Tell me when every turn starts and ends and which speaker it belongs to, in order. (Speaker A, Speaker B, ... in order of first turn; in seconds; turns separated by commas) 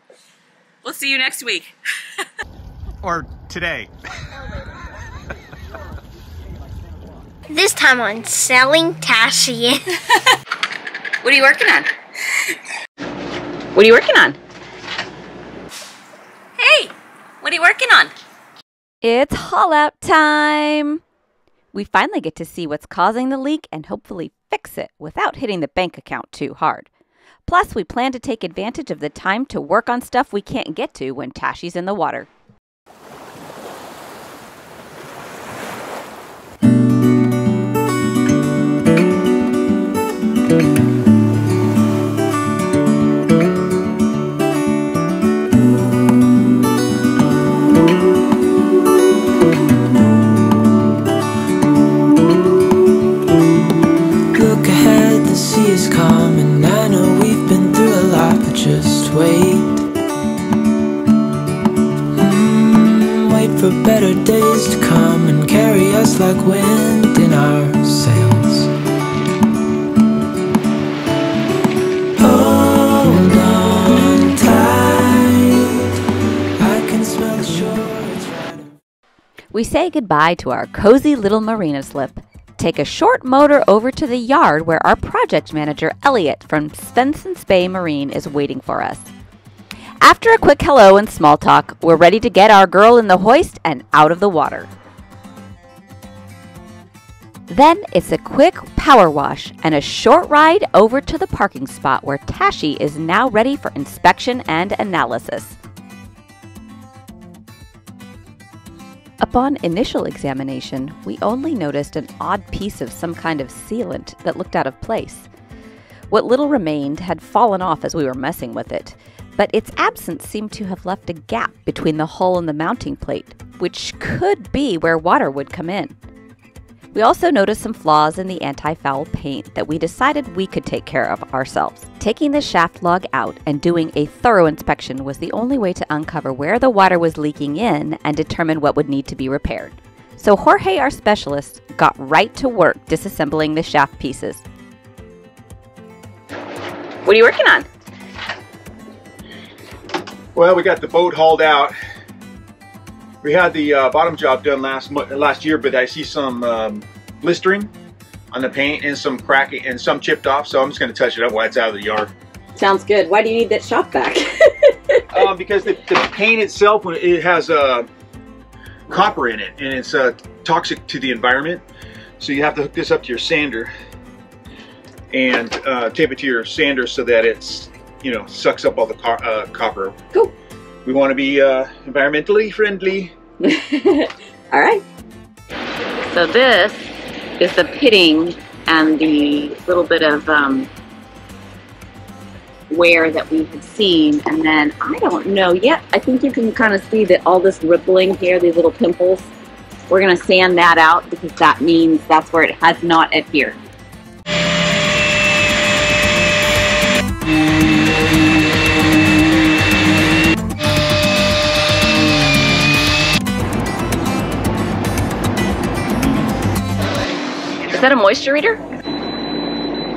Speaker A: 0.9-1.5, Speaker B: 0.9-1.4, Speaker C: 7.5-9.8, Speaker B: 11.2-11.8, Speaker A: 13.8-14.3, Speaker B: 16.6-16.9, Speaker B: 17.4-18.1, Speaker A: 19.0-21.0, Speaker A: 21.7-26.9, Speaker A: 27.5-32.3, Speaker D: 54.3-59.8, Speaker D: 62.1-68.7, Speaker D: 72.2-75.7, Speaker D: 76.6-78.7, Speaker A: 79.5-89.1, Speaker A: 90.0-94.7, Speaker A: 97.5-105.6, Speaker A: 109.2-115.3, Speaker A: 116.1-125.9, Speaker A: 126.9-144.4, Speaker A: 147.1-147.7, Speaker E: 150.3-151.8, Speaker E: 153.2-157.7, Speaker E: 158.3-162.1, Speaker B: 162.6-164.3, Speaker E: 165.1-167.9, Speaker E: 168.9-171.6, Speaker E: 172.2-173.7, Speaker E: 175.1-179.9, Speaker E: 180.8-183.1, Speaker B: 183.4-184.8, Speaker B: 186.1-190.7, Speaker B: 192.7-199.3, Speaker B: 199.9-203.6, Speaker B: 217.7-218.6